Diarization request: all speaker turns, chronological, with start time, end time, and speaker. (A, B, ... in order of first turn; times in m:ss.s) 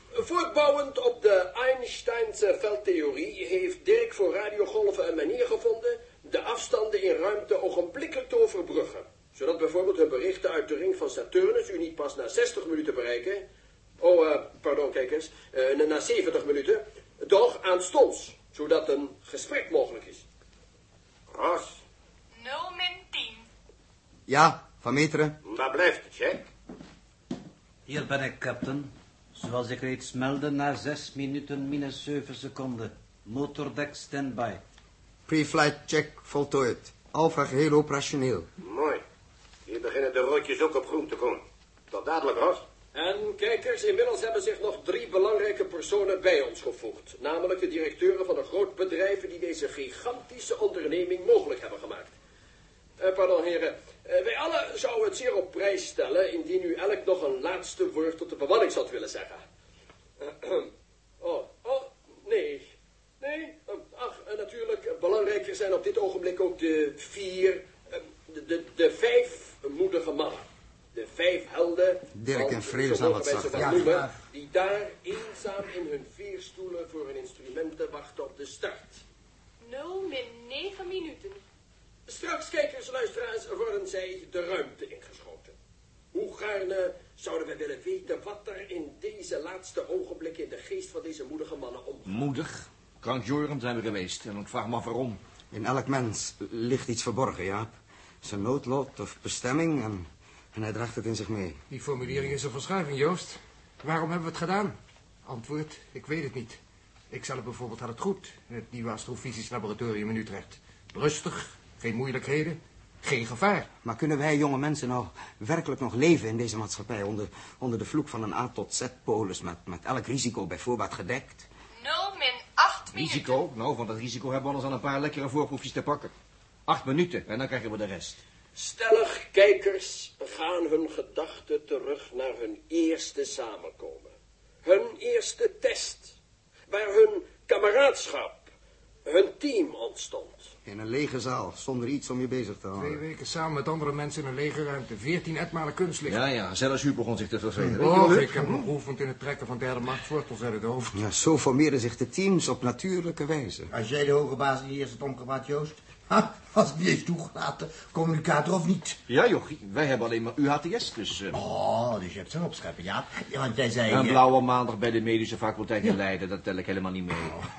0:00.1-0:13.4 A
0:14.0-0:20.2 A
0:21.3-0:21.8 B
0:22.3-0:23.5 C
0:24.3-0:25.4 D
0:25.4-0:26.5 B
0:27.9-0:34.6 E
0:35.3-0:38.5 D
0:38.6-0:39.0 B
0:39.6-0:42.6 B
0:42.9-0:52.1 A
0:53.0-0:59.4 A
1:00.2-1:02.7 A
1:03.2-1:19.0 A
1:12.1-1:14.1 D
1:19.6-1:21.4 C
1:22.1-1:25.5 A
1:26.1-1:32.3 A
1:32.0-1:35.2 F
1:35.5-1:41.6 D
1:41.7-1:46.6 G
1:47.1-1:53.7 G
1:53.8-2:01.5 D
2:01.7-2:03.4 C
2:02.9-2:06.1 F
2:06.6-2:08.2 F
2:08.6-2:14.1 A
2:14.6-2:16.2 A
2:16.7-2:18.5 A
2:19.0-2:20.5 A
2:20.6-2:23.0 D
2:22.8-2:26.2 G
2:26.0-2:28.6 F
2:27.8-2:30.9 G
2:30.9-2:33.7 D
2:33.7-2:39.0 H
2:39.1-2:41.4 F
2:41.3-2:44.2 H
2:43.9-2:47.4 F